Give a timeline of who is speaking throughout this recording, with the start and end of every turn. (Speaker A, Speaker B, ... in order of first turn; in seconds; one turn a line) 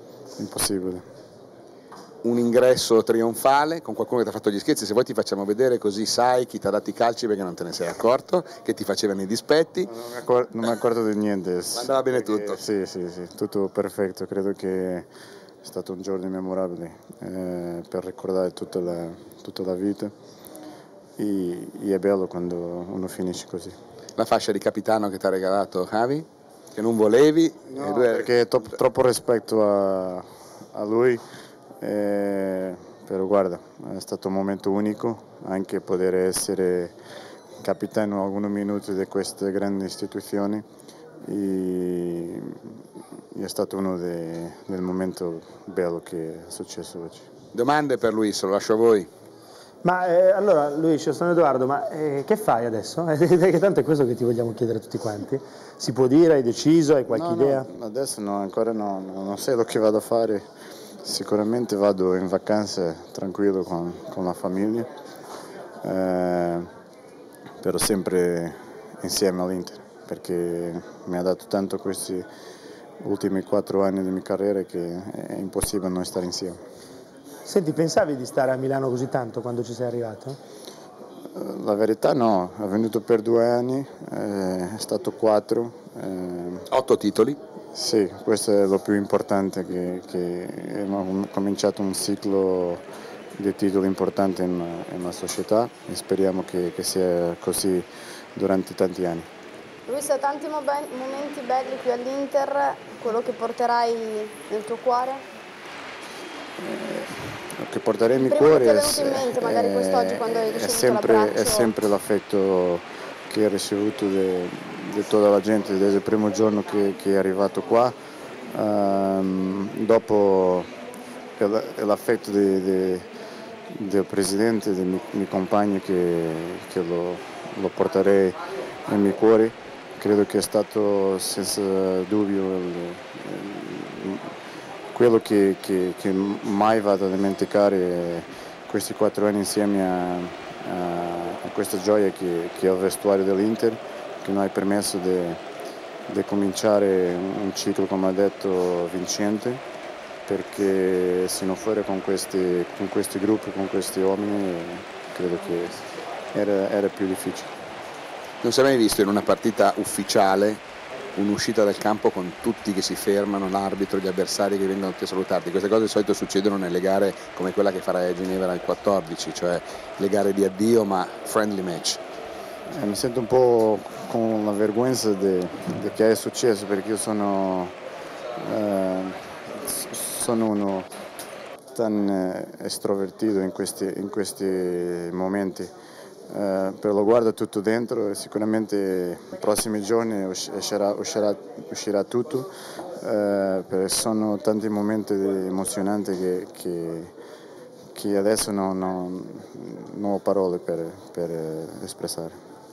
Speaker A: 0.4-1.0
Speaker B: 2.2-9.9
Speaker A: 9.9-15.1
Speaker B: 11.7-12.6
Speaker A: 15.6-20.1
Speaker A: 21.2-23.8
Speaker B: 24.2-28.4
Speaker A: 27.7-31.2
Speaker A: 31.8-37.0
Speaker A: 37.6-40.6
Speaker A: 41.3-42.7
Speaker A: 43.4-47.3
Speaker B: 47.5-49.1
Speaker C: 49.8-57.7
Speaker A: 57.1-60.4
Speaker A: 61.0-64.9
Speaker A: 65.8-66.7
Speaker A: 67.6-72.3
Speaker A: 73.0-76.6
Speaker C: 77.5-80.4
Speaker A: 81.3-86.7
Speaker B: 86.7-87.4
Speaker A: 87.7-92.8
Speaker A: 93.4-99.3
Speaker D: 99.9-105.2
Speaker A: 106.6-117.9
Speaker D: 108.2-111.7
Speaker A: 118.5-120.7
Speaker A: 121.4-123.0
Speaker A: 123.7-134.3
Speaker A: 134.9-145.4
Speaker A: 146.1-149.6
Speaker A: 150.3-157.5
Speaker B: 158.4-160.6
Speaker B: 161.2-172.0
Speaker A: 172.7-177.8
Speaker A: 178.4-180.9
Speaker A: 181.7-185.7
Speaker A: 186.3-192.5
Speaker A: 193.0-197.1
Speaker A: 197.9-202.4